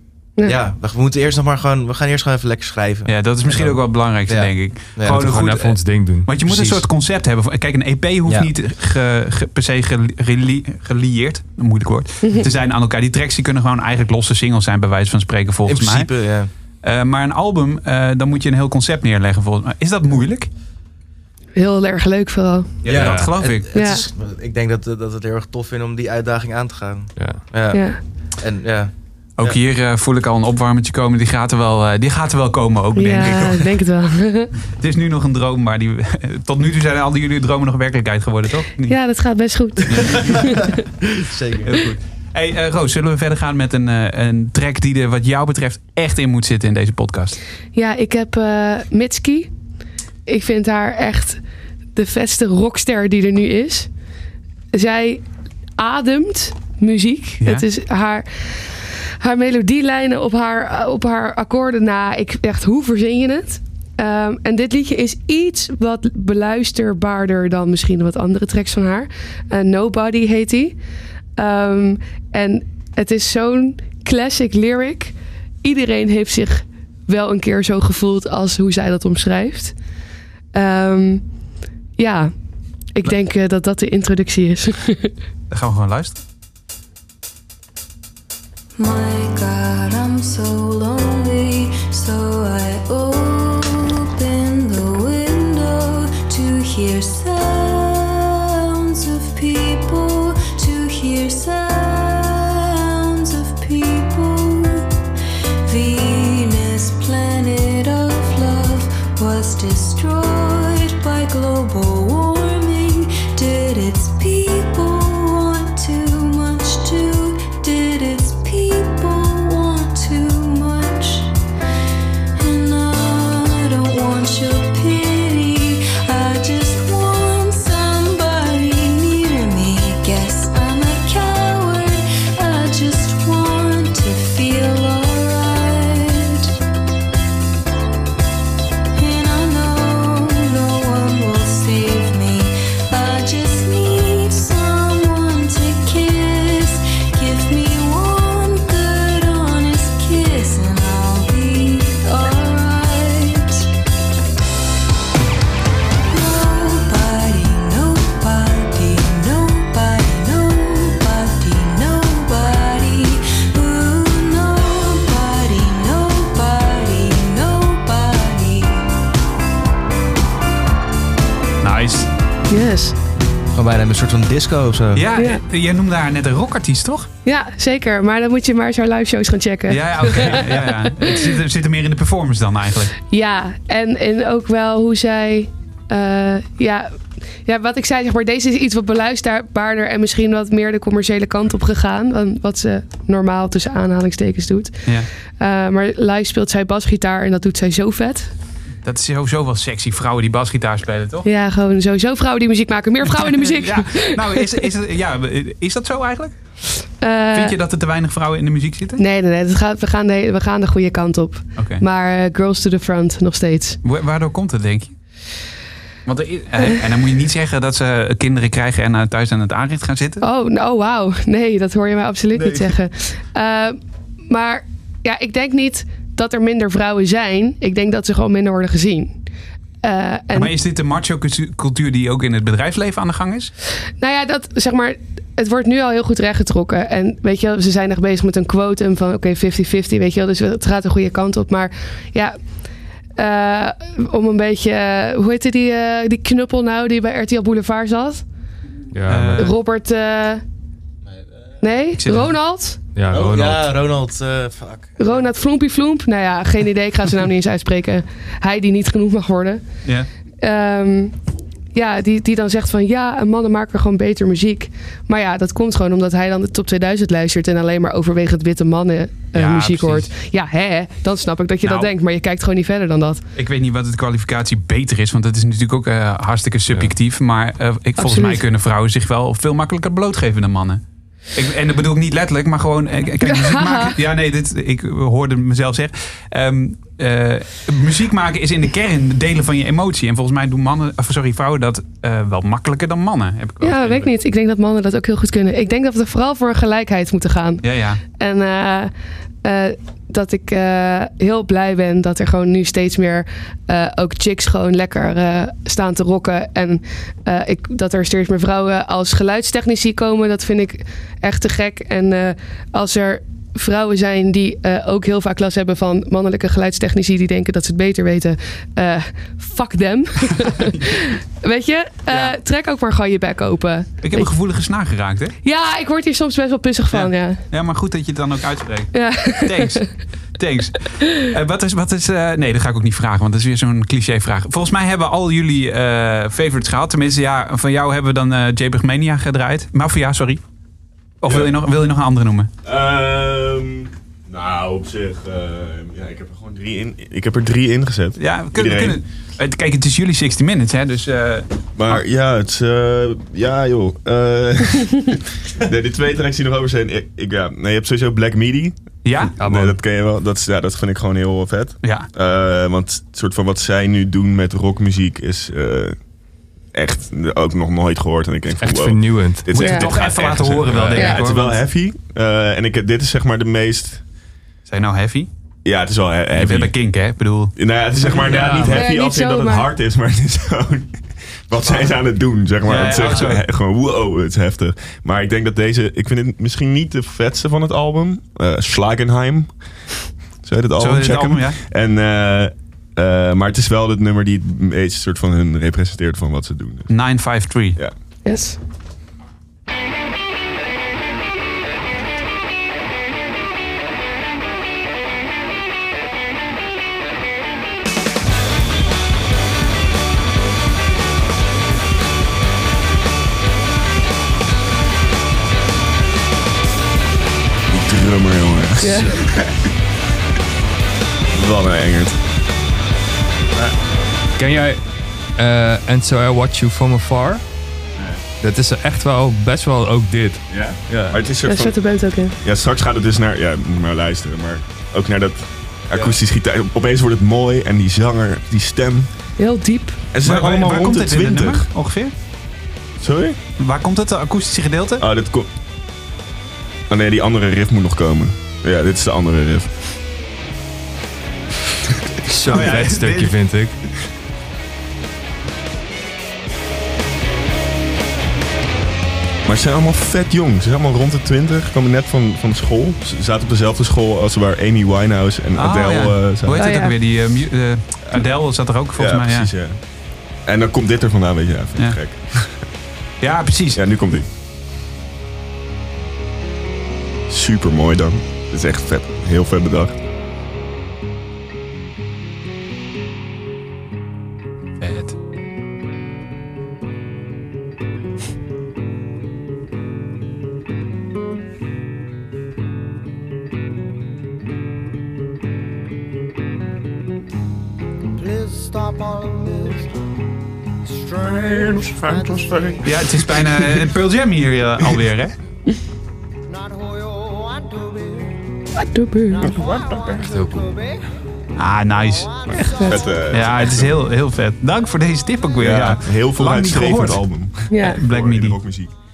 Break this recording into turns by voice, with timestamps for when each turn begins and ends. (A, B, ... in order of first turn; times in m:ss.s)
0:00.4-0:05.2 A
0:03.1-0:16.1 B
0:05.1-0:06.8 C
0:15.6-0:16.5 A
0:16.8-0:20.5 B
0:21.6-0:22.8 D
0:22.8-0:23.7 B
0:22.8-0:29.6 A
0:22.9-0:23.3 C
0:23.7-0:24.1 D
0:27.2-0:27.4 C
0:27.7-0:28.0 D
0:29.4-0:33.7 B
0:33.0-0:34.5 D
0:34.7-0:39.0 B
0:38.9-0:40.7 D
0:39.9-0:40.4 B
0:40.0-0:41.9 A
0:41.7-0:47.4 B
0:47.7-0:49.5 D
0:50.3-0:51.4 D
0:52.0-0:53.9 D
0:54.7-0:55.2 D
0:55.8-1:10.8 D
1:11.4-1:19.8 D
1:20.5-1:21.3 D
1:22.0-1:22.3 D
1:22.9-1:25.1 D
1:25.5-1:26.2 B
1:28.8-1:44.9 E
1:45.6-2:01.4 E
2:02.4-2:16.5 E
2:19.0-2:33.7 E
2:36.1-2:48.9 E
2:51.6-2:52.1 B
2:52.5-2:53.0 D
2:53.5-2:55.1 A
2:54.9-2:57.1 B
2:55.2-2:55.4 D
2:57.2-3:01.3 D
2:59.7-3:03.0 B
3:03.1-3:18.3 D
3:18.8-3:21.3 B
3:21.2-3:24.6 D
3:23.0-3:26.4 B
3:27.0-3:27.6 D
3:27.3-3:29.0 B
3:29.0-3:33.8 D
3:31.6-3:31.8 B
3:33.8-3:35.0 B
3:36.1-3:40.2 B
3:40.2-3:49.2 D
3:49.8-3:50.5 D
3:50.3-3:53.5 B
3:54.0-4:02.4 D
4:03.2-4:08.2 D
4:08.9-4:09.5 C
4:09.1-4:09.5 B
4:09.4-4:10.4 D
4:11.6-4:12.8 D
4:12.0-4:12.3 B
4:13.0-4:13.7 C
4:13.1-4:15.2 A
4:15.0-4:19.7 D
4:20.4-4:21.2 D
4:21.7-4:33.2 D
4:29.3-4:30.1 B
4:31.6-4:31.9 B
4:33.4-4:54.1 B
4:38.0-4:38.4 D
4:43.3-4:43.9 D
4:53.6-4:58.9 D
4:57.6-4:58.0 B
4:59.4-5:24.3 D
5:22.1-5:22.4 B
5:24.0-5:25.4 B
5:25.4-5:27.4 D
5:26.9-5:40.4 B
5:28.9-5:29.8 D
5:41.2-5:42.5 B
5:41.3-5:41.5 F
5:42.6-5:49.0 F
5:48.2-5:52.0 B
5:51.8-6:06.0 F
5:59.0-5:59.4 B
5:59.4-5:59.8 C
6:01.8-6:02.1 B
6:06.7-6:14.0 F
6:08.6-6:09.5 C
6:09.5-6:11.6 B
6:09.6-6:09.9 D
6:10.4-6:11.1 C
6:14.7-6:15.3 B
6:15.6-6:16.7 F
6:16.4-6:18.8 B
6:17.6-6:29.9 F
6:18.2-6:18.8 C
6:18.7-6:19.7 D
6:22.6-6:23.4 B
6:30.4-6:36.9 F
6:30.8-6:31.6 B
6:36.9-6:37.8 B
6:38.2-6:38.6 D
6:57.7-6:59.6 F
6:58.8-6:59.1 D
7:01.3-7:02.2 F
7:04.4-7:04.8 C
7:05.4-7:07.4 C
7:08.0-7:08.2 F
7:08.4-7:11.2 C
7:10.5-7:11.8 F
7:11.5-7:12.4 D
7:12.4-7:19.1 F
7:19.4-7:20.0 D
7:20.1-7:21.7 F
7:20.2-7:22.1 B
7:23.0-7:23.4 F
7:23.6-7:25.0 B
7:25.0-7:25.5 F
7:26.9-7:29.7 F
7:32.2-7:33.8 C
7:32.5-7:33.4 B
7:39.4-7:46.7 F
7:45.6-7:49.5 B
7:46.6-7:47.0 D
7:49.0-7:49.8 F
7:50.4-7:52.6 F
7:53.2-7:53.8 B
7:53.8-7:54.3 F
7:57.3-8:00.0 F
8:04.8-8:05.2 B
8:21.2-8:22.8 F
8:22.8-8:25.4 B
8:28.8-8:29.5 D
8:29.5-8:30.2 F
8:30.2-8:30.8 C
8:31.6-8:37.2 B
8:32.6-8:33.0 D
8:32.8-8:34.0 F
8:35.6-8:38.9 F
8:37.7-8:38.0 D
8:37.8-8:38.6 B